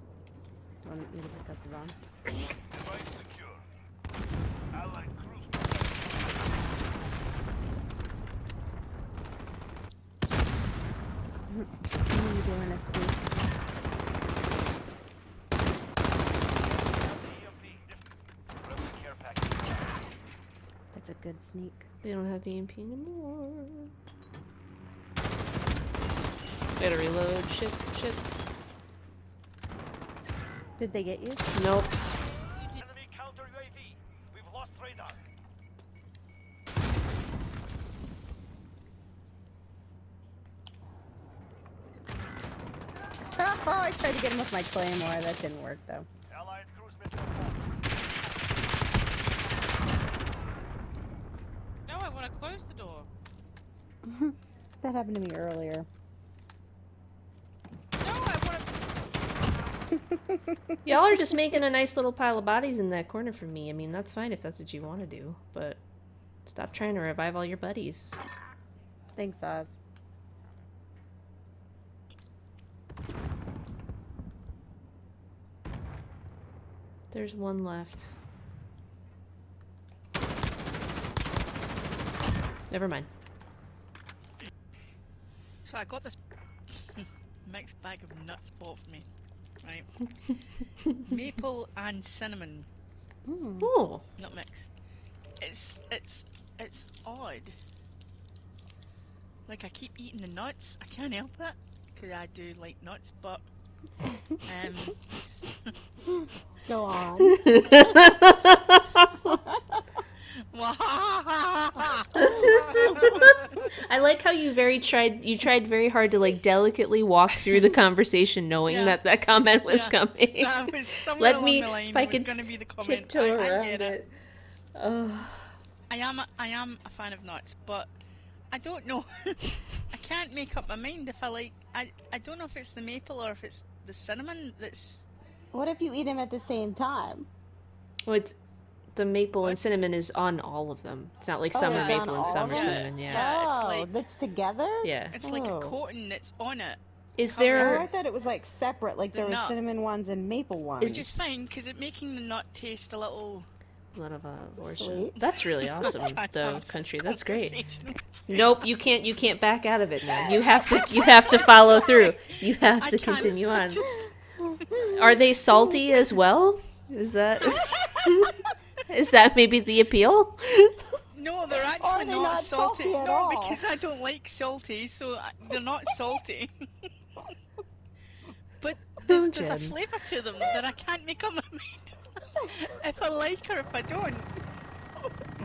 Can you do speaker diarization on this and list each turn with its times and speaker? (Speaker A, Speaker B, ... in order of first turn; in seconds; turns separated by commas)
Speaker A: 0.8-1.9, Speaker A: 11.5-13.4, Speaker B: 17.3-17.8, Speaker B: 19.1-19.4, Speaker A: 20.9-21.9, Speaker C: 22.0-23.9, Speaker C: 26.8-28.3, Speaker A: 30.8-31.5, Speaker C: 31.5-31.9, Speaker B: 33.3-33.7, Speaker B: 34.6-35.1, Speaker A: 43.3-46.1, Speaker B: 46.6-47.3, Speaker D: 51.9-53.1, Speaker A: 54.0-55.9, Speaker D: 58.0-58.7, Speaker A: 60.1-60.5, Speaker C: 60.9-65.8, Speaker C: 66.5-68.2, Speaker A: 69.2-69.7, Speaker C: 77.1-78.1, Speaker C: 82.7-83.1, Speaker E: 85.7-86.2, Speaker E: 86.7-89.1, Speaker E: 89.6-89.9, Speaker E: 91.0-92.7, Speaker A: 93.3-93.7, Speaker C: 93.6-94.0, Speaker E: 94.2-94.7, Speaker E: 95.4-97.5, Speaker E: 99.5-103.4, Speaker E: 104.5-105.0, Speaker A: 106.7-107.4, Speaker C: 107.3-109.3, Speaker A: 109.2-109.8, Speaker E: 110.5-112.1, Speaker C: 112.2-124.1, Speaker E: 118.7-119.0, Speaker E: 119.7-124.0, Speaker C: 124.8-125.6, Speaker E: 125.9-127.9, Speaker E: 128.5-135.0, Speaker A: 135.5-137.3, Speaker C: 138.1-138.3, Speaker C: 138.9-143.2, Speaker A: 141.5-145.8, Speaker E: 141.6-143.9, Speaker C: 144.8-145.2, Speaker E: 145.1-147.9, Speaker C: 147.2-147.9, Speaker A: 147.5-151.1, Speaker E: 149.1-149.6, Speaker E: 150.8-153.5, Speaker C: 153.9-157.6, Speaker A: 154.6-155.2, Speaker E: 155.6-158.4, Speaker C: 158.3-163.9, Speaker E: 160.9-164.1, Speaker A: 164.7-165.2, Speaker C: 164.8-168.3, Speaker E: 167.4-168.0, Speaker C: 168.9-171.0, Speaker E: 171.1-176.5, Speaker A: 171.6-173.6, Speaker E: 178.6-184.3, Speaker C: 179.1-179.8